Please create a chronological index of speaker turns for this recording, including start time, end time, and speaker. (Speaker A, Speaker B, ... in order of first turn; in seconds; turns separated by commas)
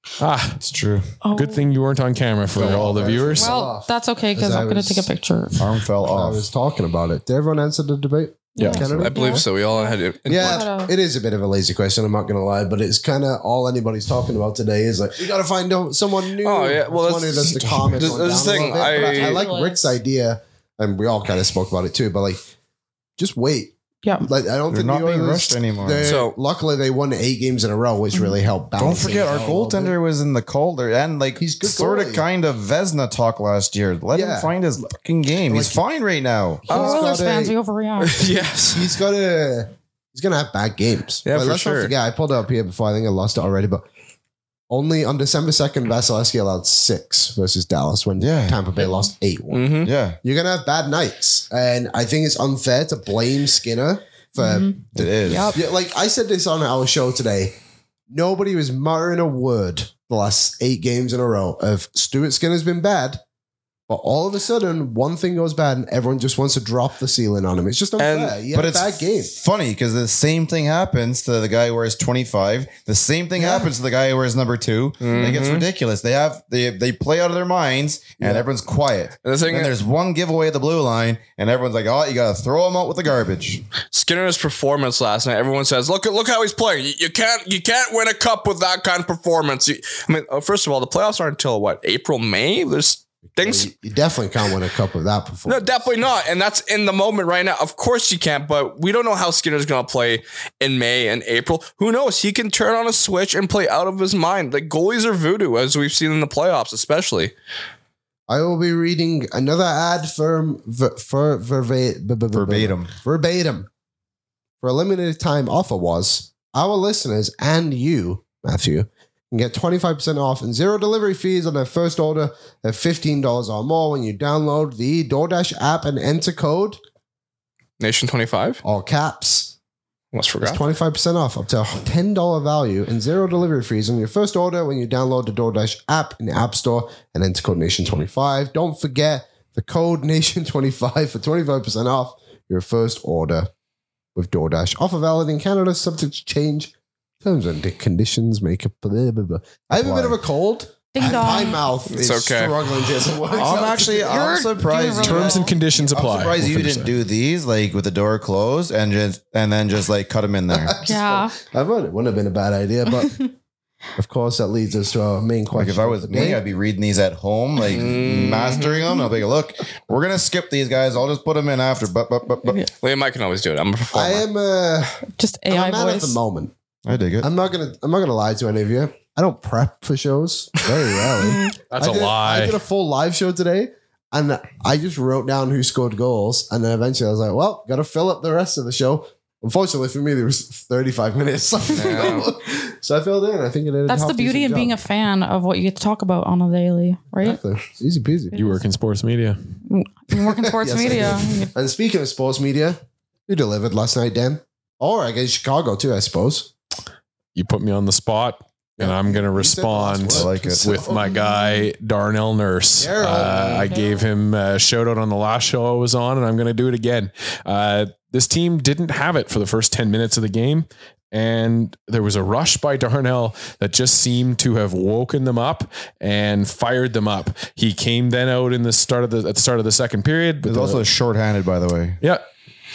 Speaker A: 0.2-0.6, Speaker B: 0.6-1.1, Speaker C: 1.2-1.7, Speaker A: 1.3-3.5, Speaker D: 2.5-5.1, Speaker C: 2.6-5.6, Speaker B: 5.6-6.5, Speaker D: 6.0-9.4, Speaker A: 8.6-9.0, Speaker C: 8.6-10.9, Speaker E: 9.0-10.6, Speaker D: 10.2-22.4, Speaker E: 16.4-19.4, Speaker A: 17.6-18.1, Speaker C: 18.7-19.9, Speaker D: 23.2-29.9, Speaker B: 24.7-26.1, Speaker E: 26.0-26.3, Speaker B: 28.8-36.7, Speaker D: 31.4-32.3, Speaker D: 34.1-34.5, Speaker D: 35.5-35.8, Speaker D: 36.6-37.5, Speaker C: 36.7-38.1, Speaker E: 36.7-37.0, Speaker E: 38.0-38.9, Speaker D: 38.7-43.8, Speaker E: 41.2-41.9, Speaker D: 44.7-57.5, Speaker B: 48.2-48.6, Speaker E: 49.5-49.9, Speaker B: 49.8-50.2, Speaker C: 54.4-55.6, Speaker B: 54.9-55.6, Speaker D: 58.1-63.2, Speaker D: 63.9-69.3, Speaker E: 68.0-68.3, Speaker B: 68.5-83.6, Speaker D: 73.3-73.7, Speaker E: 75.0-75.7, Speaker D: 78.2-78.5, Speaker E: 79.2-79.7, Speaker E: 83.9-93.7, Speaker D: 93.3-95.9, Speaker E: 95.5-107.3, Speaker D: 108.3-113.7, Speaker B: 112.3-112.9, Speaker D: 114.6-126.8, Speaker E: 127.8-128.6, Speaker D: 128.6-129.5, Speaker E: 130.1-130.6, Speaker D: 130.4-143.5, Speaker D: 144.1-154.3, Speaker B: 149.7-150.2, Speaker C: 150.9-151.6, Speaker E: 151.9-152.6, Speaker C: 153.3-155.6, Speaker B: 153.3-160.8, Speaker A: 155.0-156.9, Speaker D: 160.5-163.2, Speaker C: 160.8-161.3, Speaker C: 163.0-163.3, Speaker D: 164.0-166.4, Speaker B: 165.5-172.6, Speaker E: 167.7-168.8, Speaker E: 172.8-174.2, Speaker D: 173.9-175.0, Speaker C: 175.2-176.2, Speaker D: 175.5-176.5, Speaker B: 176.8-177.3, Speaker D: 177.2-194.8, Speaker A: 181.7-182.6, Speaker E: 191.7-192.3, Speaker C: 193.9-197.4, Speaker D: 197.2-198.3, Speaker C: 198.3-198.6, Speaker A: 198.3-199.4, Speaker C: 199.7-201.5, Speaker D: 200.1-206.5, Speaker A: 207.3-230.8, Speaker D: 208.8-211.1, Speaker B: 210.1-210.9, Speaker C: 211.0-211.7, Speaker D: 212.8-213.7, Speaker C: 213.7-214.1, Speaker B: 230.4-232.0